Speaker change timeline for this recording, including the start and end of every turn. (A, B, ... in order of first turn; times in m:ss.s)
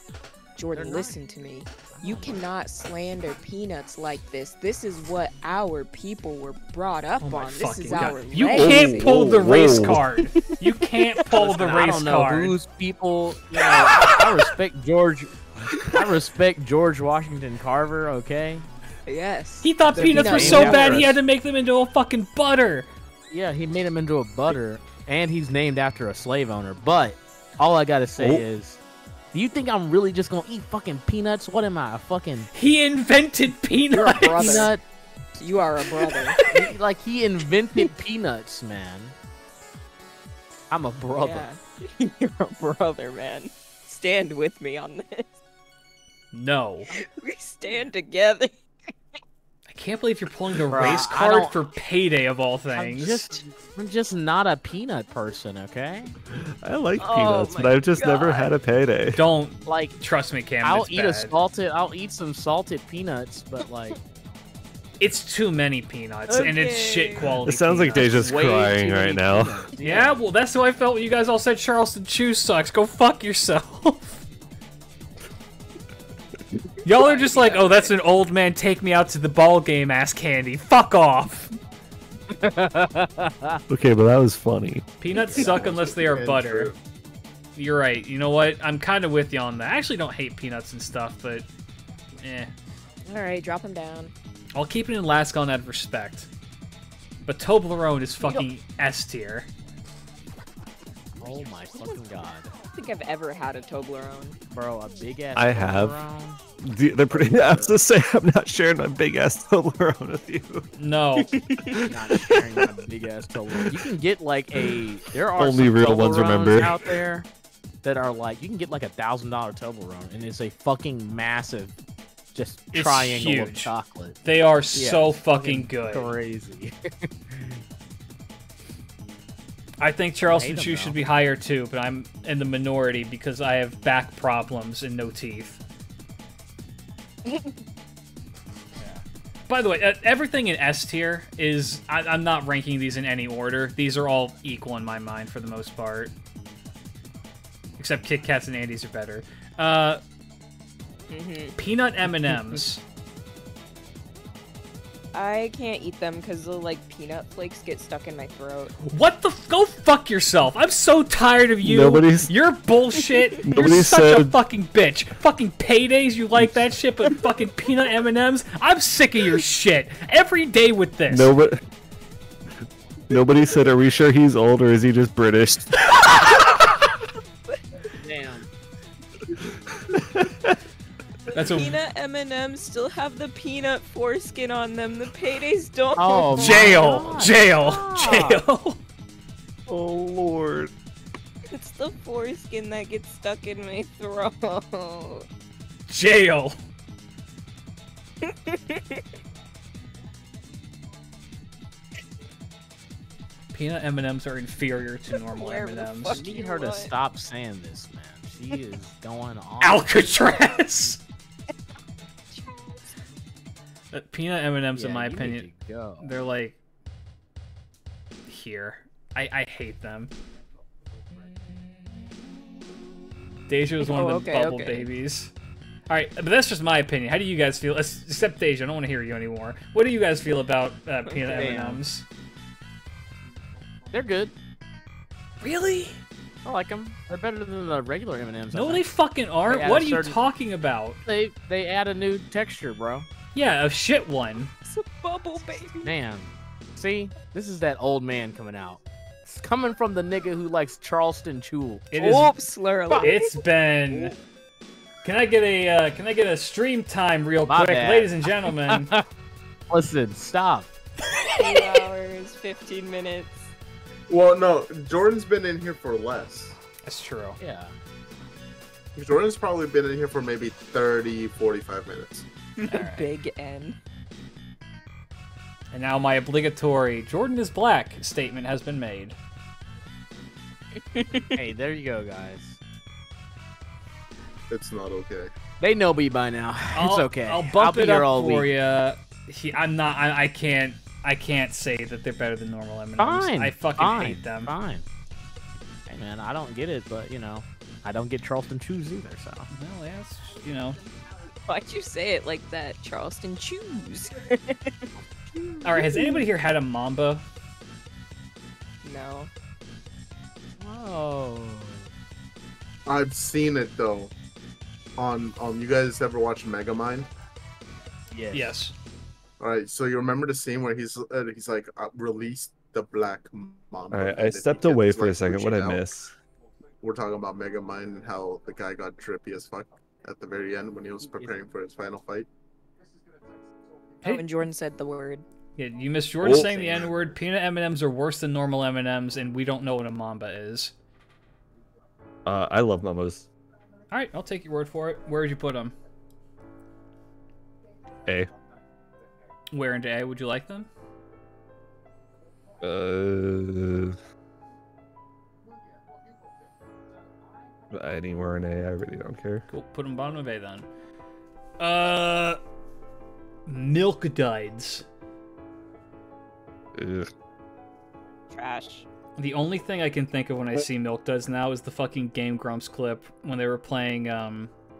0:00.6-0:09.2 A
0:00.7-0:01.2 B
0:01.8-0:02.4 B
0:07.2-0:12.6 C
0:07.9-0:08.2 B
0:08.4-0:10.0 D
0:11.2-0:18.7 B
0:19.0-0:21.1 A
0:19.6-0:22.9 C
0:20.0-0:21.2 B
0:23.3-0:28.8 B
0:28.2-0:28.4 D
0:29.3-0:32.5 B
0:32.5-0:34.7 C
0:33.9-0:34.8 B
0:34.0-0:34.7 A
0:35.4-0:36.5 A
0:36.0-0:36.7 C
0:36.4-0:39.1 B
0:40.7-0:41.5 B
0:41.2-0:45.3 A
0:46.3-0:46.9 C
0:46.9-0:48.5 A
0:49.7-0:53.3 C
0:50.7-0:51.6 B
0:52.7-0:56.1 B
0:56.3-0:59.2 D
0:57.0-0:58.5 A
0:59.1-1:01.3 C
0:59.6-1:00.0 B
1:00.6-1:04.0 B
1:05.0-1:08.4 C
1:06.3-1:07.4 A
1:07.4-1:09.6 D
1:07.9-1:10.2 B
1:09.8-1:10.0 A
1:09.8-1:14.2 C
1:16.8-1:21.5 C
1:16.9-1:17.9 A
1:22.3-1:23.6 B
1:23.7-1:24.8 D
1:25.0-1:26.7 C
1:25.2-1:25.7 B
1:25.4-1:26.8 E
1:27.6-1:31.5 C
1:32.2-1:32.5 C
1:33.1-1:34.1 A
1:34.5-1:36.3 C
1:37.2-1:39.5 C
1:41.2-1:42.5 B
1:42.7-1:44.4 A
1:44.5-1:46.4 B
1:45.3-1:45.9 D
1:46.6-1:50.7 D
1:47.1-1:47.8 E
1:50.8-1:51.3 C
1:51.2-1:52.0 A
1:51.9-1:57.3 B
1:55.4-1:57.0 D
1:57.8-2:01.8 B
2:02.3-2:04.2 B
2:02.7-2:03.7 C
2:04.2-2:06.1 C
2:04.7-2:07.6 B
2:09.8-2:15.6 C
2:10.2-2:11.0 B
2:17.3-2:17.5 A
2:18.8-2:26.1 C
2:27.8-2:30.0 C
2:31.1-2:31.5 A
2:31.6-2:32.8 C
2:35.1-2:38.7 A
2:38.8-2:51.3 C
2:41.6-2:42.3 D
2:43.4-2:44.4 D
2:51.1-2:51.6 D
2:53.1-2:55.7 D
2:55.9-2:56.7 C
2:58.0-2:58.5 B
2:59.9-3:00.6 D
3:01.3-3:01.8 C
3:01.3-3:07.0 A
3:06.0-3:08.4 B
3:06.3-3:08.8 C
3:09.7-3:10.7 D
3:11.5-3:15.2 A
3:15.9-3:16.6 C
3:18.2-3:19.0 A
3:23.5-3:26.2 C
3:25.3-3:26.9 A
3:26.0-3:30.6 B
3:29.6-3:31.0 C
3:32.3-3:32.9 A
3:33.9-3:35.5 C
3:34.8-3:36.1 B
3:36.0-3:36.6 C
3:38.3-3:40.1 C
3:43.5-3:45.3 C
3:43.8-3:44.9 A
3:45.9-3:52.0 C
3:51.3-3:51.8 B
3:53.9-3:54.3 B
3:55.4-3:56.0 C
3:56.4-3:58.8 B
3:58.5-4:01.0 C
3:59.4-4:00.2 B
4:01.0-4:03.1 B
4:03.3-4:04.5 C
4:04.6-4:05.9 A
4:05.8-4:12.3 B
4:11.9-4:13.3 A
4:13.0-4:14.1 C
4:15.0-4:18.9 C
4:17.4-4:19.0 B
4:19.7-4:20.7 B
4:21.4-4:23.4 A
4:21.4-4:21.8 C
4:24.1-4:26.6 E
4:26.8-4:27.4 C
4:27.4-4:27.7 B
4:28.9-4:32.2 E
4:32.6-4:33.1 C
4:32.7-4:33.8 A
4:35.7-4:39.2 C
4:40.9-4:41.4 A
4:41.3-4:42.6 B
4:44.5-4:45.3 E
4:45.6-4:48.5 B
4:46.7-4:54.5 C
4:53.0-4:54.8 B
4:55.9-4:59.5 B
4:59.5-5:00.8 C
5:01.4-5:04.8 A
5:05.3-5:06.2 B
5:05.6-5:07.2 C
5:08.8-5:09.3 A
5:10.6-5:11.9 B
5:12.9-5:14.1 E
5:15.0-5:17.1 E
5:18.1-5:18.5 B
5:18.3-5:18.7 C
5:19.4-5:25.9 E
5:23.9-5:26.1 D
5:26.8-5:32.3 E
5:31.1-5:31.4 B
5:34.0-5:35.2 A
5:35.6-5:40.7 C
5:36.2-5:37.0 D
5:42.2-5:43.3 D
5:43.9-5:45.7 C
5:48.0-5:48.3 D
5:49.5-5:50.7 C
5:52.6-5:54.0 D
5:57.7-5:59.4 D
5:59.5-6:00.7 C
6:01.6-6:02.4 C
6:03.4-6:04.8 C
6:06.8-6:07.1 D
6:08.3-6:08.8 A
6:09.2-6:14.5 C